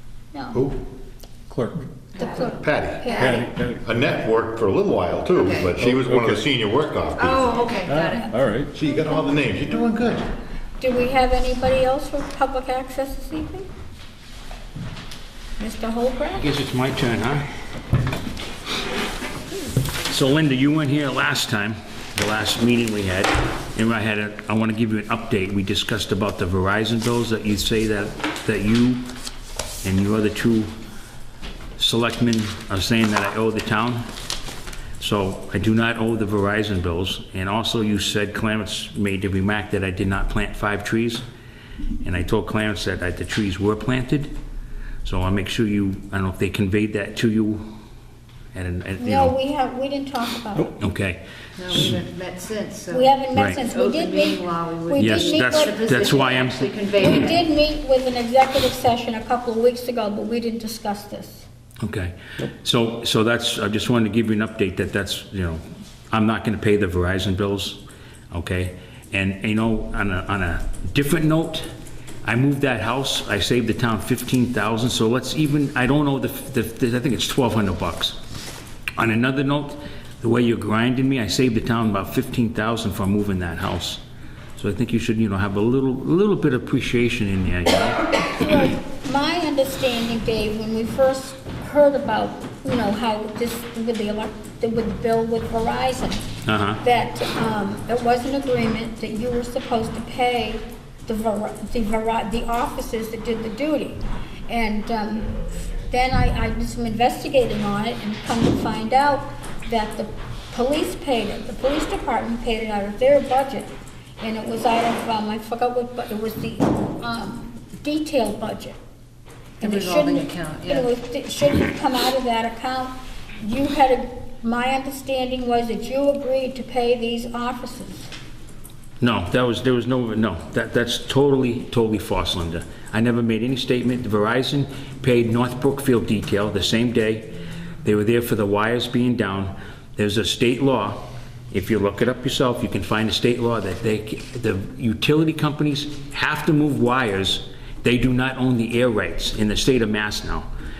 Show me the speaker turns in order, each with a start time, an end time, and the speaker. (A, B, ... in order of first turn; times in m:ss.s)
0:00.3-0:00.6 A
0:00.5-0:00.8 B
0:01.5-0:01.8 C
0:02.2-0:03.4 D
0:02.2-0:03.4 A
0:02.6-0:07.6 B
0:03.2-0:03.8 C
0:05.3-0:05.8 D
0:05.7-0:06.5 C
0:07.2-0:08.4 D
0:07.8-0:08.7 C
0:08.7-0:10.3 B
0:10.8-0:13.7 A
0:15.6-0:16.5 A
0:16.4-0:17.4 E
0:20.1-0:29.1 E
0:29.8-0:30.7 E
0:31.8-0:34.0 E
0:35.0-0:41.2 E
0:42.0-0:44.3 E
0:45.0-0:47.6 E
0:48.5-0:49.3 E
0:49.0-0:50.7 A
0:50.8-0:52.0 E
0:51.6-0:57.4 D
0:52.9-0:56.3 A
0:55.0-0:57.2 E
0:57.0-1:01.4 A
1:01.8-1:07.8 E
1:08.3-1:11.6 E
1:12.2-1:18.2 E
1:19.0-1:24.0 E
1:24.6-1:28.0 E
1:28.2-1:36.3 A
1:36.5-1:36.8 E
1:36.8-1:58.8 A
1:59.6-2:00.9 D
1:59.6-2:08.1 A
2:09.0-2:17.3 E
2:17.8-2:30.5 E